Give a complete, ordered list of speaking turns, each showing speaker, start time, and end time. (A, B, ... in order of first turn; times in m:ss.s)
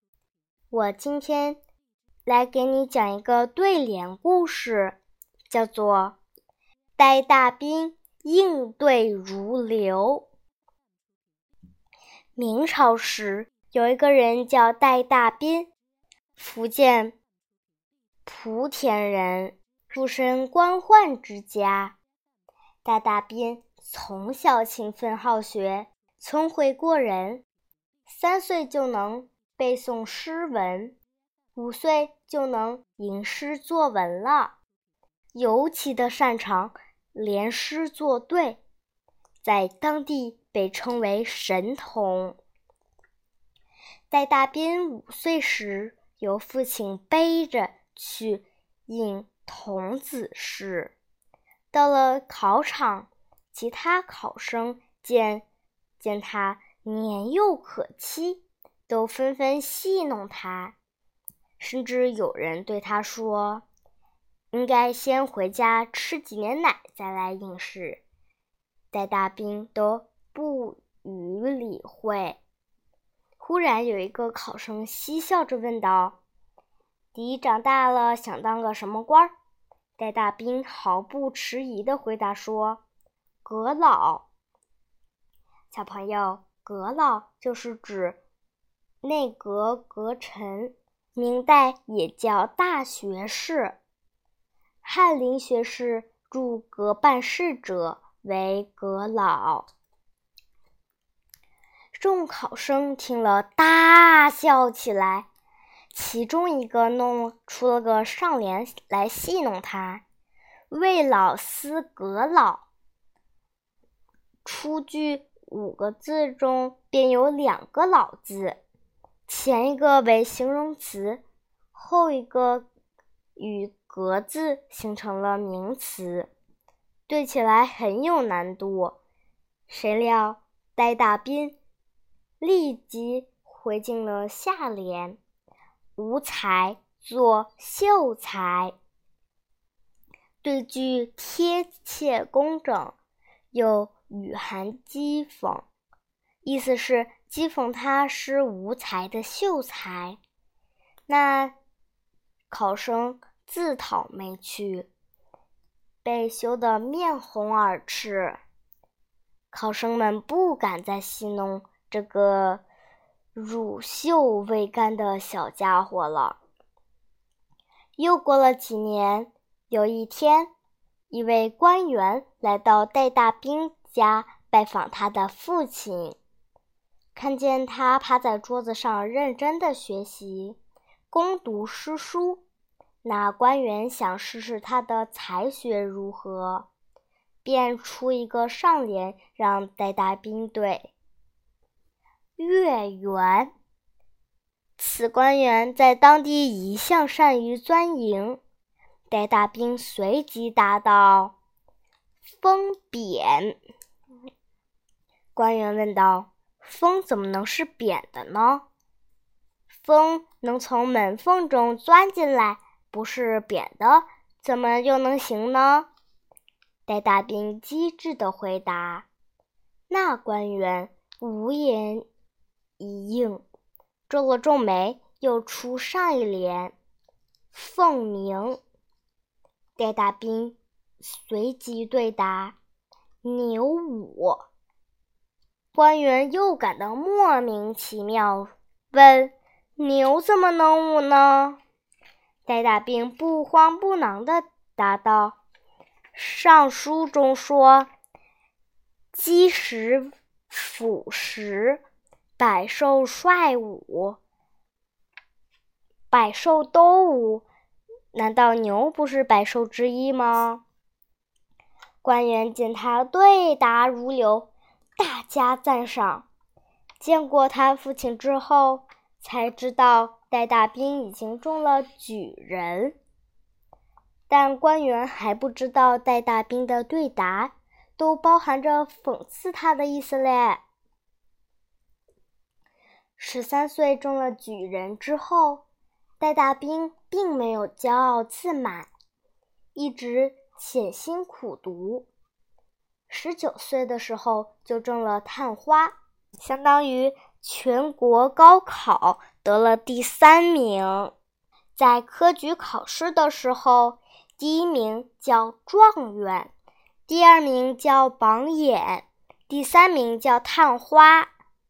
0:00.7-0:01.6 A
0:02.3-0:05.0 A
0:05.5-0:06.2 A
0:07.0-0:10.3 A
0:12.4-0:15.7 A
0:16.4-0:17.2 A
0:18.3-0:22.0 A
0:22.8-0:27.4 A
0:28.1-0:31.0 A
0:31.6-0:34.6 A
0:35.3-0:38.6 A
0:39.4-0:42.4 A
0:44.1-0:50.9 A
0:51.7-0:55.4 A
0:56.0-1:00.7 A
1:01.6-1:03.6 A
1:04.5-1:08.0 A
1:08.9-1:12.4 A
1:13.4-1:16.2 A
1:17.2-1:19.3 A
1:20.0-1:22.8 A
1:23.4-1:24.2 A
1:25.7-1:28.2 A
1:29.0-1:33.8 A
1:34.8-1:39.7 A
1:41.9-1:45.3 A
1:45.9-1:50.0 A
1:50.7-1:52.7 A
1:54.4-1:58.6 A
1:59.3-2:01.2 A
2:01.7-2:02.7 A
2:03.4-2:06.3 A
2:07.1-2:09.0 A
2:09.7-2:11.6 A
2:12.4-2:15.2 A
2:16.0-2:18.7 A
2:20.4-2:23.0 A
2:23.5-2:25.6 A
2:26.4-2:30.2 A
2:31.1-2:31.5 A
2:32.5-2:34.9 A
2:36.0-2:38.4 A
2:39.5-2:42.6 A
2:43.4-2:46.4 A
2:48.0-2:50.5 A
2:51.1-2:56.2 A
2:57.2-3:00.6 A
3:01.1-3:02.4 A
3:03.0-3:06.7 A
3:07.4-3:10.9 A
3:12.4-3:13.5 A
3:14.8-3:18.4 A
3:19.1-3:21.3 A
3:22.4-3:23.6 A
3:25.4-3:28.6 A
3:29.8-3:35.9 A
3:36.9-3:39.1 A
3:39.9-3:42.1 A
3:42.8-3:43.4 A
3:44.1-3:46.7 A
3:47.5-3:48.6 A
3:49.8-3:52.6 A
3:53.2-3:54.5 A
3:55.7-4:01.6 A
4:02.5-4:05.4 A
4:06.1-4:07.9 A
4:09.1-4:11.8 A
4:12.4-4:14.2 A
4:16.1-4:17.5 A
4:18.1-4:20.6 A
4:22.0-4:26.2 A
4:27.0-4:33.0 A
4:34.3-4:40.6 A
4:43.2-4:45.6 A
4:46.2-4:48.9 A
4:49.8-4:52.1 A
4:53.1-5:01.1 A
5:01.8-5:06.5 A
5:07.1-5:11.3 A